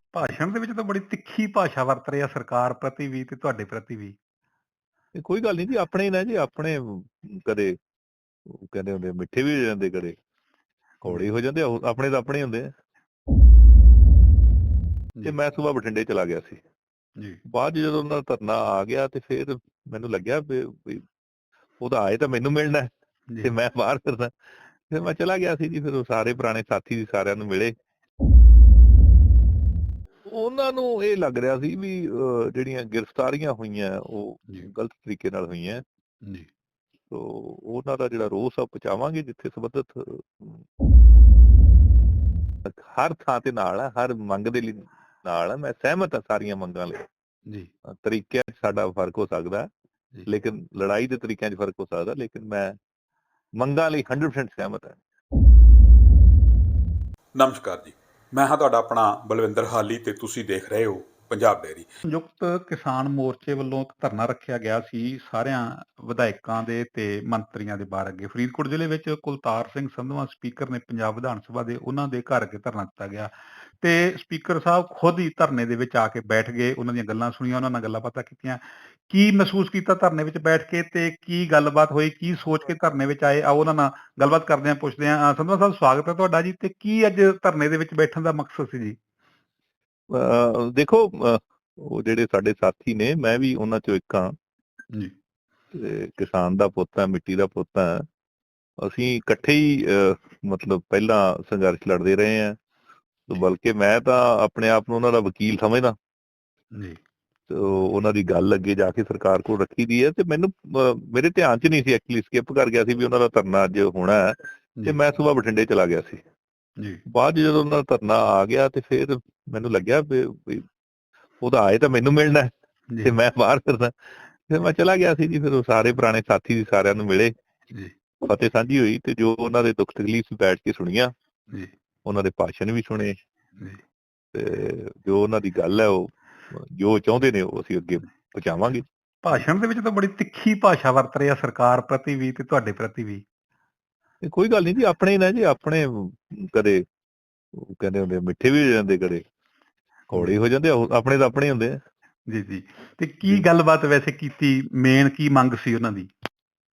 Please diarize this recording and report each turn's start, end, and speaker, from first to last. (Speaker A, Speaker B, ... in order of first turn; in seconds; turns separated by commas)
Speaker A: 0.1-4.2, Speaker B: 5.2-7.8, Speaker B: 8.5-10.2, Speaker B: 11.0-12.7, Speaker B: 15.2-16.6, Speaker B: 17.5-21.0, Speaker B: 21.8-22.9, Speaker B: 23.4-24.3, Speaker B: 24.9-27.7, Speaker B: 30.3-35.8, Speaker B: 37.1-40.6, Speaker B: 42.7-47.0, Speaker B: 47.9-49.7, Speaker B: 50.3-52.8, Speaker B: 53.6-55.0, Speaker C: 57.4-61.9, Speaker A: 62.0-89.0, Speaker B: 90.1-94.3, Speaker B: 95.7-98.0, Speaker B: 98.8-102.6, Speaker B: 103.3-105.9, Speaker B: 107.5-116.2, Speaker B: 117.1-120.7, Speaker B: 121.4-122.5, Speaker B: 123.0-124.0, Speaker B: 124.5-127.3, Speaker B: 128.2-131.1, Speaker B: 132.1-133.2, Speaker B: 134.3-138.8, Speaker A: 139.2-143.2, Speaker B: 144.2-146.8, Speaker B: 147.6-149.2, Speaker B: 150.1-151.8, Speaker A: 152.3-156.1